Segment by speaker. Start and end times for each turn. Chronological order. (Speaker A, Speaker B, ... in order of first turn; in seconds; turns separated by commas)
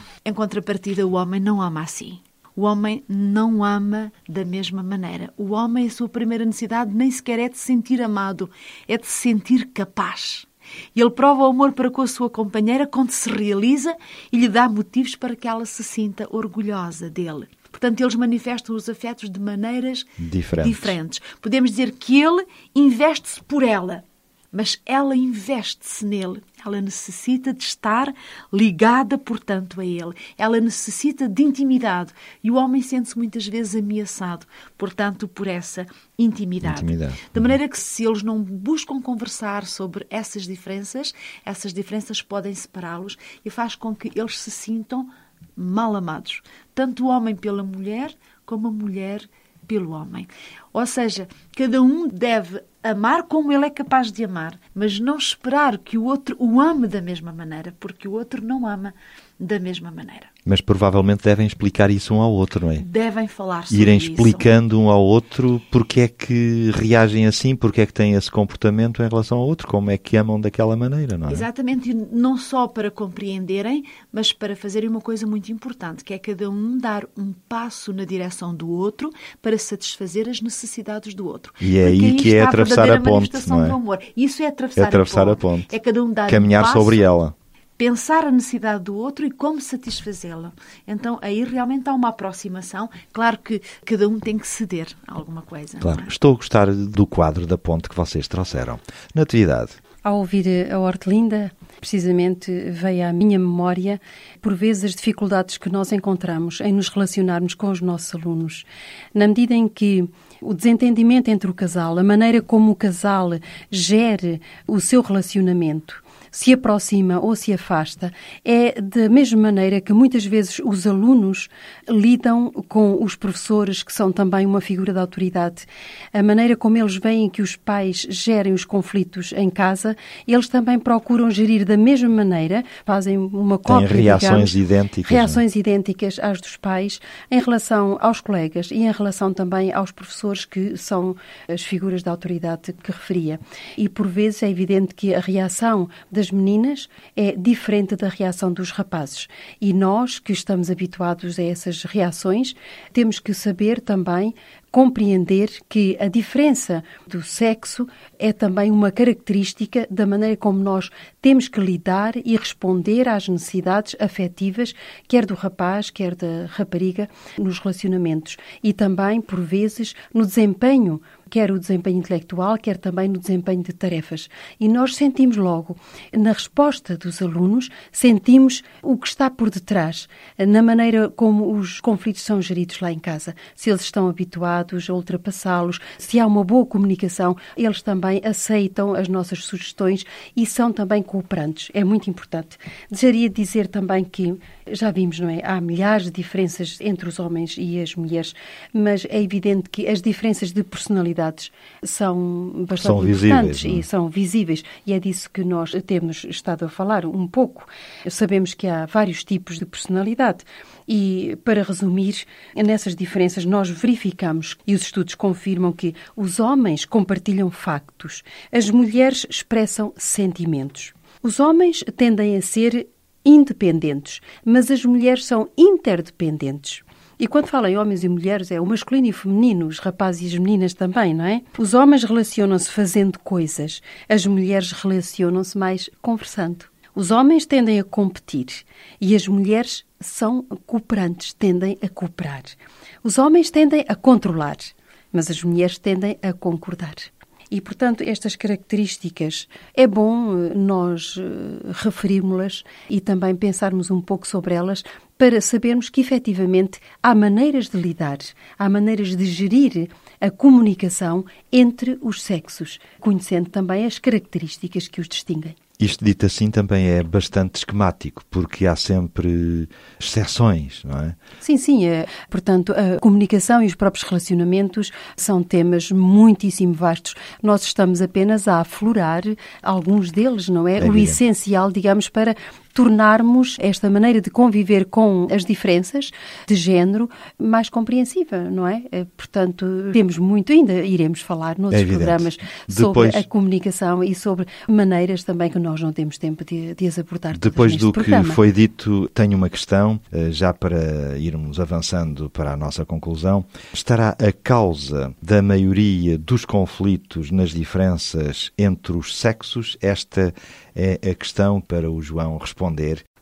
Speaker A: 0.2-60.3, Speaker B: 20.2-20.9, Speaker B: 36.6-37.5, Speaker B: 60.5-62.8, Speaker A: 62.8-64.5, Speaker B: 63.7-71.5, Speaker A: 71.3-87.0, Speaker B: 81.6-83.8, Speaker B: 84.8-85.7, Speaker B: 86.3-87.3, Speaker A: 87.8-96.1, Speaker B: 95.8-99.8, Speaker C: 100.0-134.5, Speaker B: 133.7-135.4, Speaker C: 135.0-265.6, Speaker B: 202.8-203.8, Speaker B: 265.8-271.2, Speaker C: 271.4-298.4, Speaker B: 280.8-281.2, Speaker B: 291.7-293.3, Speaker B: 297.3-313.0